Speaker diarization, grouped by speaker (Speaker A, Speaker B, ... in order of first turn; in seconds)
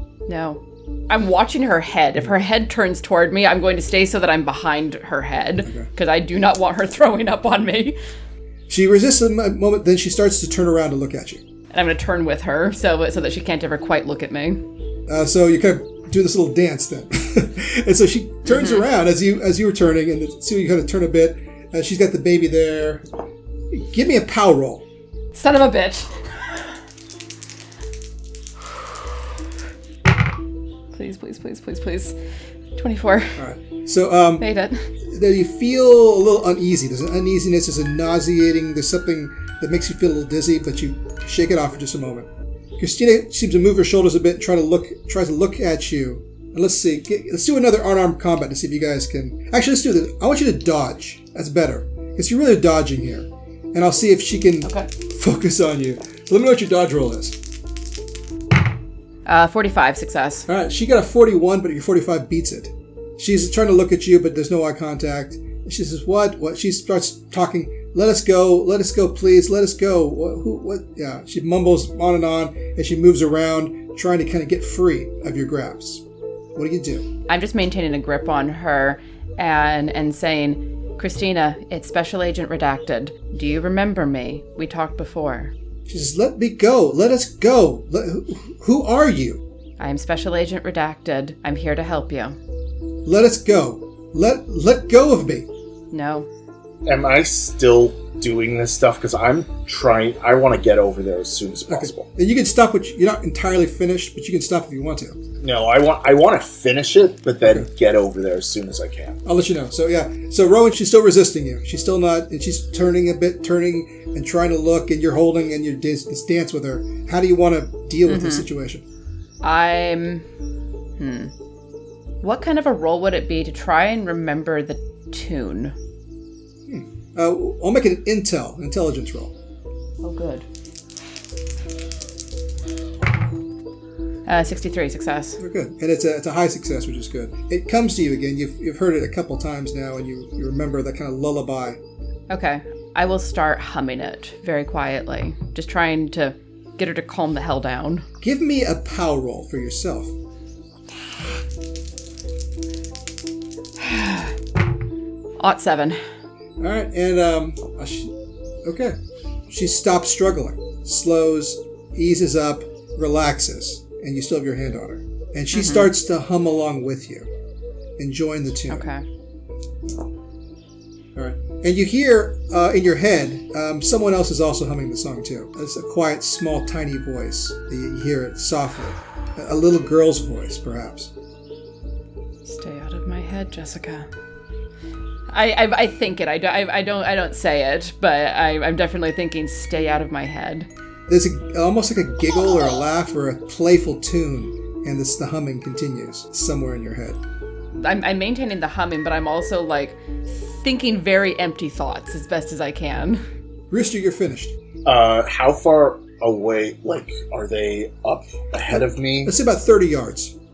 Speaker A: 0.3-8.0, 11.7-14.6, 18.4-18.8, 25.3-26.2, 30.9-32.1, 32.8-33.4, 34.4-34.9, 59.2-60.5, 77.3-85.5, 89.8-92.4, 95.9-96.3, 118.0-118.5, 119.4-120.2, 121.0-121.3, 122.2-125.7, 130.0-130.4, 134.2-135.4, 142.3-148.0, 153.8-154.3, 155.4-156.0, 165.5-165.9, 168.7-169.0, 182.4-184.1, 185.3-190.7, 197.8-203.2
Speaker B: 8.7-11.4, 15.1-23.0, 23.7-24.8, 33.4-34.5, 35.0-57.4, 60.5-76.0, 76.5-77.1, 85.9-89.4, 93.0-95.5, 101.7-105.2, 107.4-107.7, 109.2-118.8, 126.7-129.3, 135.4-141.8, 148.2-150.1, 156.6-158.1, 158.6-167.3, 168.0-168.8, 171.1-181.1, 191.1-197.2, 203.7-204.5, 208.7-210.3
Speaker C: 96.8-102.1, 105.4-109.2, 204.8-209.3